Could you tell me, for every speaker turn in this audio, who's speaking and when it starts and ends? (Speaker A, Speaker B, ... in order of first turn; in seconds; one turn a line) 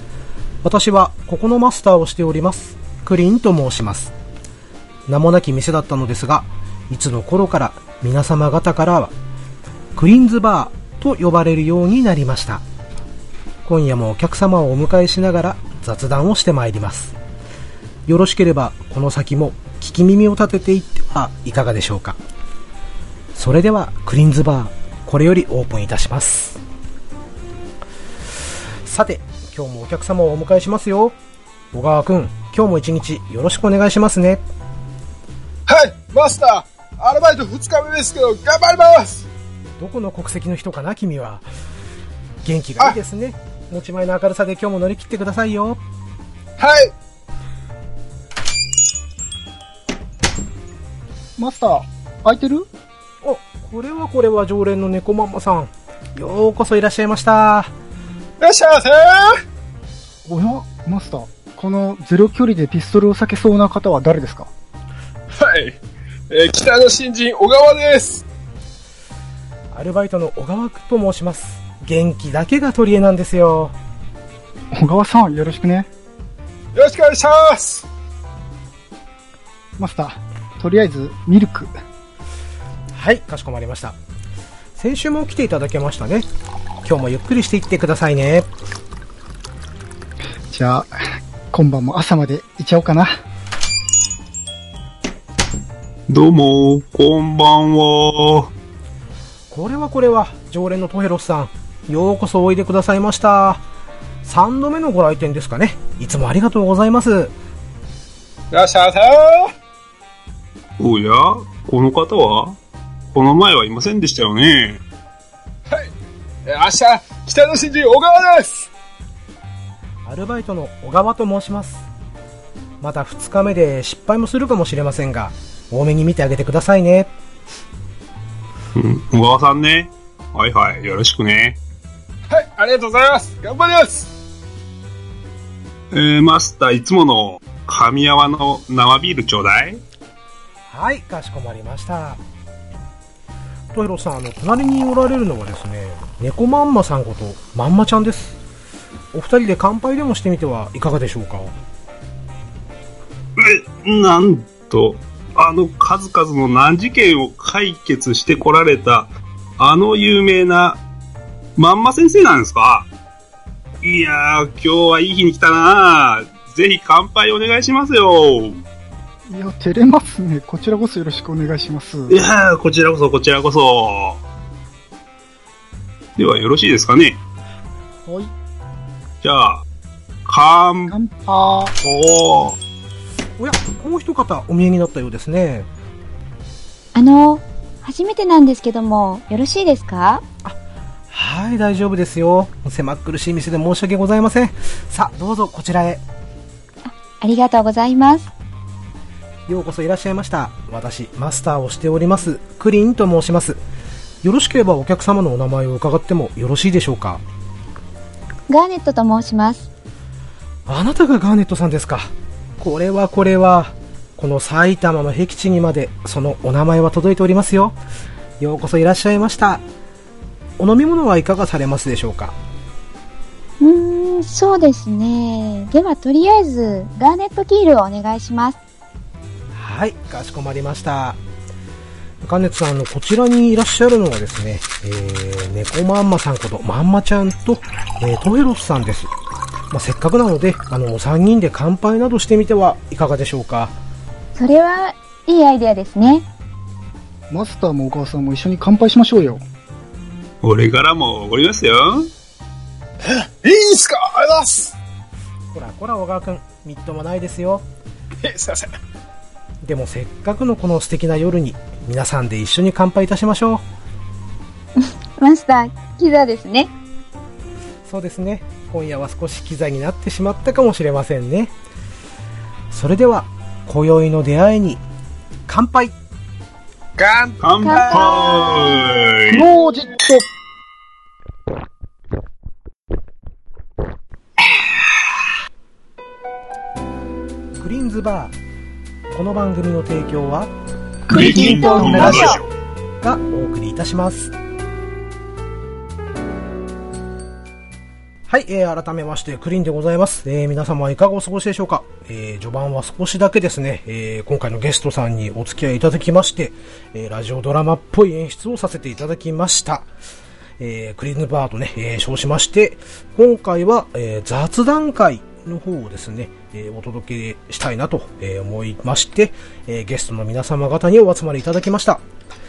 Speaker A: 0.6-4.1
Speaker A: 5.1-9.1
Speaker A: 10.0-12.6
Speaker A: 13.7-17.1
Speaker A: 18.1-22.2
Speaker A: 23.4-26.6
Speaker A: 28.8-31.2
Speaker A: 31.7-34.4
Speaker B: 35.7-39.3
Speaker A: 39.8-41.5
Speaker A: 42.4-45.8
Speaker B: 46.6-46.9
Speaker C: 51.4-52.7
Speaker A: 53.2-57.7
Speaker B: 58.4-59.4
Speaker C: 60.2-64.5
Speaker B: 65.3-65.8
Speaker B: 66.3-68.2
Speaker A: 69.7-73.7
Speaker C: 74.7-75.9
Speaker B: 76.8-77.9
Speaker C: 79.8-81.7
Speaker A: 82.9-84.0
Speaker A: 84.8-86.3
Speaker A: 86.8-88.5
Speaker C: 90.5-90.9
Speaker C: 91.5-93.1
Speaker D: 96.1-98.5
Speaker A: 99.5-103.6
Speaker A: 104.2-107.3
Speaker B: 108.5-109.5
Speaker D: 110.8-112.6
Speaker D: 113.1-114.8
Speaker B: 116.5-118.7
Speaker A: 120.1-121.9
Speaker A: 122.8-127.1
Speaker D: 128.8-131.6
Speaker B: 132.3-134.1
Speaker D: 135.9-139.8
Speaker A: 140.7-142.2
Speaker A: 143.7-148.4
Speaker A: 149.1-151.5
Speaker D: 153.4-160.8
Speaker D: 161.6-162.9
Speaker D: 163.8-168.6
Speaker C: 169.3-172.2
Speaker D: 172.1-174.2
Speaker D: 176.2-177.2
Speaker C: 178.1-178.3
Speaker D: 179.2-179.6
Speaker D: 180.3-180.9
Speaker C: 180.9-181.7
Speaker D: 181.8-182.6
Speaker A: 183.4-185.7
Speaker E: 186.9-190.2
Speaker A: 191.1-196.0
Speaker E: 196.8-198.3
Speaker A: 199.5-203.6
Speaker A: 204.2-207.2
Speaker E: 208.5-209.7
Speaker A: 210.7-217.8
Speaker A: 218.4-219.6
Speaker A: 220.6-222.4
Speaker E: 223.6-228.6
Speaker A: 229.5-231.2
Speaker A: 232.2-239.1
Speaker A: 239.7-243.7
Speaker E: 244.4-246.3
Speaker C: 247.3-249.4
Speaker D: 250.4-252.1
Speaker B: 253.0-254.8
Speaker A: 255.5-257.6
Speaker B: 258.2-258.7
Speaker A: 259.6-263.6
Speaker E: 264.8-266.7
Speaker A: 267.9-271.5
Speaker A: 272.7-274.8
Speaker A: 275.5-276.0
Speaker B: 277.0-277.8
Speaker D: 277.4-279.5
Speaker E: 277.6-278.9
Speaker C: 279.3-280.3
Speaker A: 287.6-288.3
Speaker A: 289.1-290.5
Speaker D: 291.1-292.5
Speaker E: 291.1-292.4
Speaker C: 291.1-292.3
Speaker A: 291.7-292.4
Speaker A: 293.0-294.3
Speaker A: 298.3-309.9
Speaker A: 310.6-322.0